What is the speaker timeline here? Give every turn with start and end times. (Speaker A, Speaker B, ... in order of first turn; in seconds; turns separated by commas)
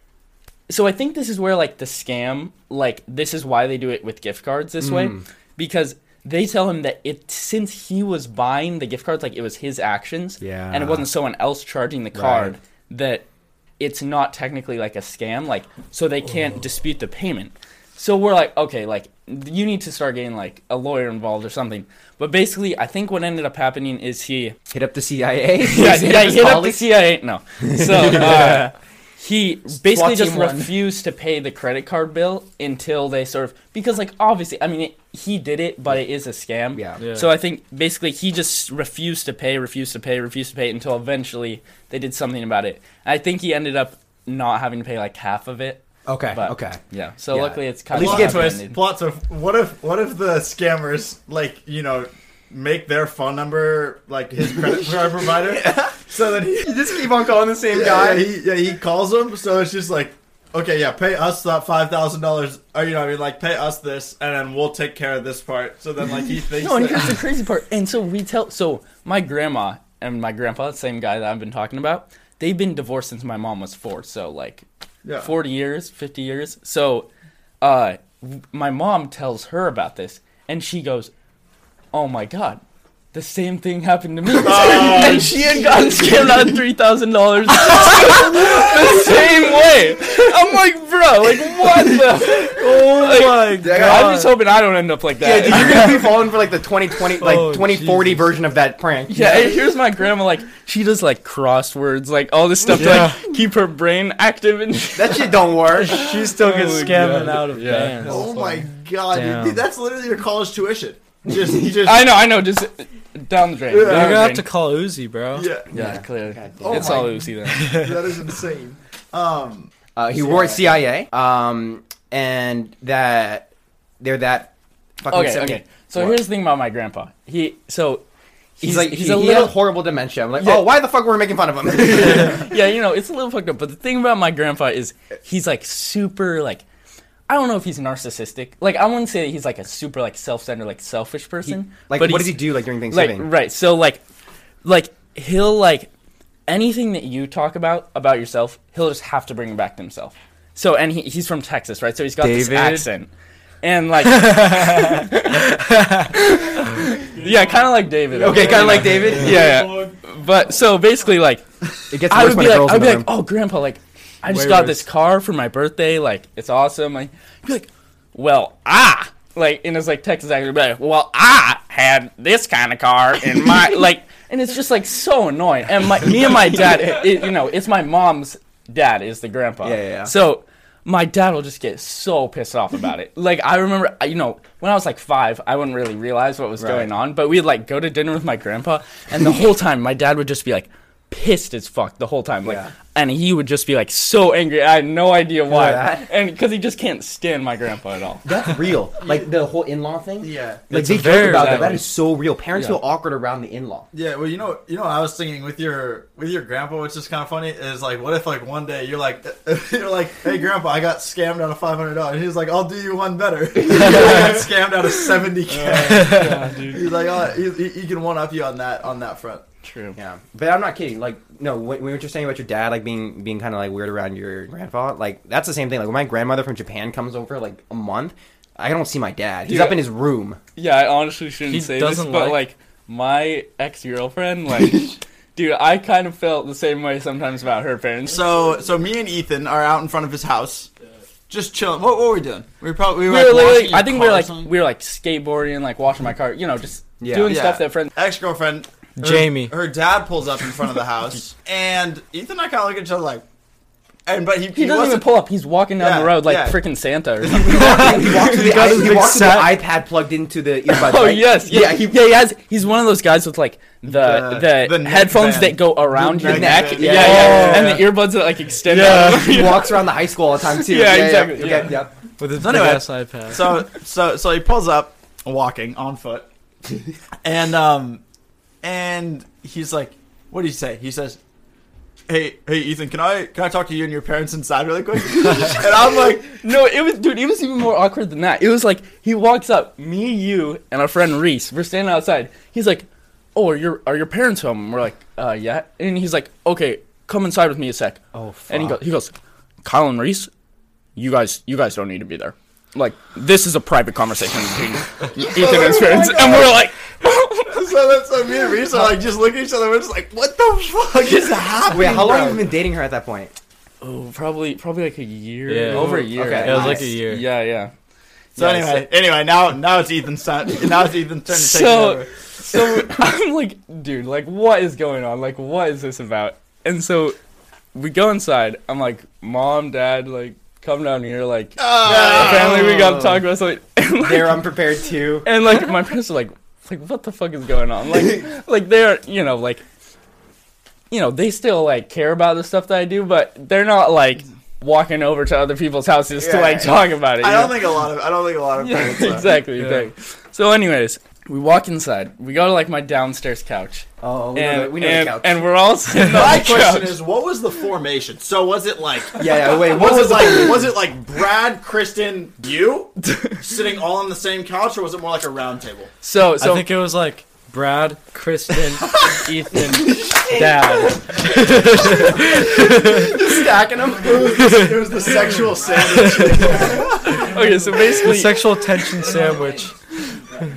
Speaker A: 0.7-13.2, Speaker B: 4.8-5.2, Speaker B: 10.4-11.1, Speaker B: 12.1-12.5, Speaker A: 13.8-24.6, Speaker B: 24.7-26.9, Speaker A: 25.6-48.8, Speaker B: 27.6-28.7, Speaker B: 29.7-30.7, Speaker B: 36.7-37.0, Speaker C: 37.0-37.3, Speaker B: 46.1-46.8, Speaker B: 47.3-48.5, Speaker D: 47.9-57.1, Speaker B: 54.7-55.9, Speaker B: 56.5-58.2, Speaker D: 57.7-67.2, Speaker A: 66.5-74.6, Speaker D: 75.0-75.3, Speaker A: 75.2-77.1, Speaker A: 77.6-81.1, Speaker A: 81.9-82.6, Speaker A: 83.1-96.1, Speaker D: 84.4-86.1, Speaker B: 84.6-85.3, Speaker C: 92.6-94.3, Speaker B: 93.6-94.2, Speaker B: 95.2-99.5, Speaker C: 97.2-98.3, Speaker A: 99.1-108.3, Speaker C: 102.7-103.2, Speaker B: 102.8-103.1, Speaker B: 104.9-106.0, Speaker C: 105.7-108.5, Speaker D: 108.0-112.2, Speaker C: 109.1-109.6, Speaker A: 111.8-114.5, Speaker D: 113.7-114.3, Speaker C: 113.8-115.5, Speaker D: 115.3-115.7, Speaker B: 115.7-117.0, Speaker A: 115.7-117.8, Speaker D: 116.6-120.8, Speaker C: 117.6-118.0, Speaker B: 119.9-123.5, Speaker B: 124.0-124.5, Speaker B: 125.0-126.2, Speaker A: 125.1-128.0, Speaker A: 128.6-129.6, Speaker B: 128.6-132.5, Speaker A: 130.4-130.7, Speaker A: 131.8-136.6, Speaker A: 137.3-144.0, Speaker B: 141.4-143.3, Speaker A: 144.6-145.9, Speaker A: 146.5-153.1, Speaker B: 152.2-152.9, Speaker A: 153.6-161.4, Speaker C: 155.7-156.1, Speaker B: 158.1-159.7, Speaker C: 158.6-159.6, Speaker B: 161.9-163.1, Speaker A: 162.1-198.2, Speaker C: 164.3-164.8, Speaker B: 179.6-180.1, Speaker B: 186.6-186.9, Speaker B: 192.4-192.7, Speaker B: 195.5-196.1, Speaker B: 198.2-203.9, Speaker D: 200.2-200.6, Speaker C: 200.7-201.8, Speaker A: 201.0-201.8, Speaker A: 202.5-202.8, Speaker D: 203.9-219.4, Speaker B: 213.8-214.3, Speaker C: 213.8-214.3, Speaker A: 215.5-216.9, Speaker C: 215.8-216.4, Speaker A: 219.6-220.0, Speaker B: 219.9-230.4, Speaker A: 229.4-229.8, Speaker A: 230.6-238.2, Speaker C: 231.5-232.4, Speaker D: 238.1-240.7, Speaker D: 241.3-244.5, Speaker A: 243.0-247.9, Speaker B: 247.0-247.3, Speaker D: 247.3-253.2, Speaker C: 249.0-249.5, Speaker D: 254.1-255.1, Speaker A: 254.5-258.9, Speaker D: 255.8-256.6, Speaker D: 257.2-258.1, Speaker B: 257.3-262.0, Speaker C: 257.5-259.6, Speaker A: 260.7-269.9, Speaker D: 263.8-267.9, Speaker B: 266.2-267.8, Speaker C: 267.0-267.9, Speaker C: 268.6-269.4, Speaker B: 268.8-271.9, Speaker A: 270.4-271.8, Speaker C: 272.2-273.6, Speaker D: 272.3-276.2, Speaker D: 277.2-278.0, Speaker D: 278.6-281.2, Speaker D: 282.1-286.4, Speaker A: 285.6-299.1, Speaker B: 298.1-298.8, Speaker A: 299.6-300.3, Speaker A: 300.9-307.7, Speaker D: 305.1-306.7, Speaker D: 307.5-312.5, Speaker B: 311.7-313.3, Speaker A: 313.8-317.7, Speaker C: 315.5-317.2, Speaker B: 315.7-316.9, Speaker A: 318.4-318.9, Speaker D: 318.4-322.1, Speaker A: 321.3-327.1, Speaker A: 327.7-334.5, Speaker D: 331.6-332.8, Speaker B: 331.8-333.2, Speaker B: 334.0-335.3, Speaker A: 335.2-339.6, Speaker A: 340.9-347.8, Speaker B: 346.1-346.7, Speaker D: 347.2-349.4, Speaker A: 348.6-357.0, Speaker C: 349.6-349.9, Speaker B: 354.0-355.4, Speaker D: 356.0-365.9, Speaker B: 359.1-360.7, Speaker A: 366.0-366.7, Speaker C: 366.4-373.1, Speaker B: 369.6-374.6, Speaker D: 374.0-377.2, Speaker C: 374.4-374.9, Speaker C: 376.0-376.5, Speaker A: 377.1-379.1, Speaker C: 377.9-379.9